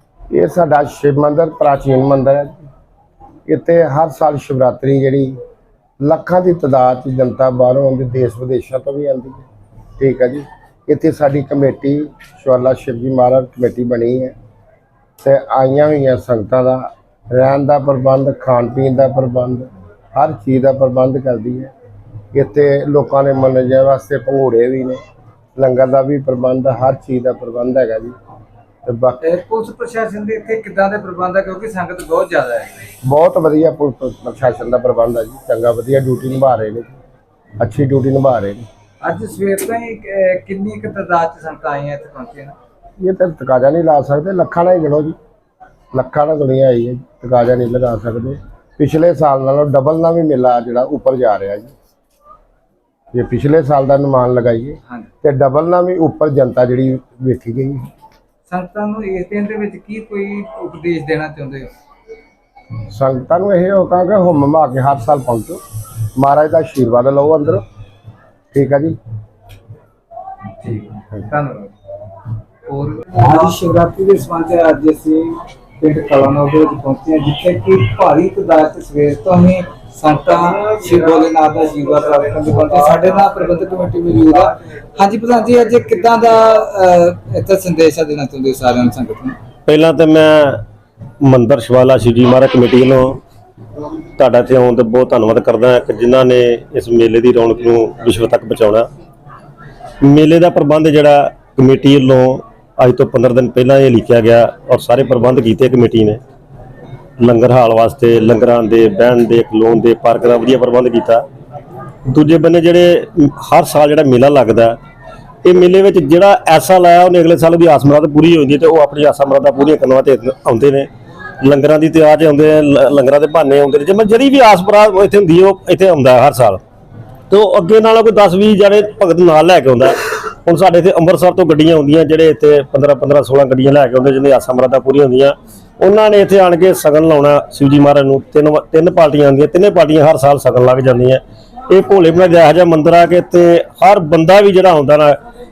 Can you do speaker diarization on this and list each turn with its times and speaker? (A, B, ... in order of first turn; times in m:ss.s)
0:00.3-0:02.6 A
0:03.5-0:05.4 A
0:06.0-0:09.4 A
0:10.0-0:14.3 A
0:15.2-0:21.7 A
0:22.3-0:25.0 A
0:25.6-0:28.1 A
0:28.8-0:29.2 A
0:29.2-0:32.8 B
0:33.0-0:37.0 A
0:37.6-0:38.6 A
0:39.0-0:42.6 B
0:43.0-0:45.2 A
0:45.9-0:51.7 A
0:53.1-0:57.9 A
0:58.5-1:01.7 B
1:02.9-1:05.6 A
1:06.2-1:07.6 A
1:08.5-1:09.0 A
1:10.6-1:11.7 B
1:12.7-1:29.4 B
1:29.7-1:30.6 C
1:31.2-1:33.2 C
1:34.2-1:38.9 C
1:40.0-1:46.2 C
1:47.2-1:51.2 C
1:52.1-1:54.8 C
1:55.4-2:00.9 C
2:01.4-2:06.6 C
2:07.3-2:25.2 C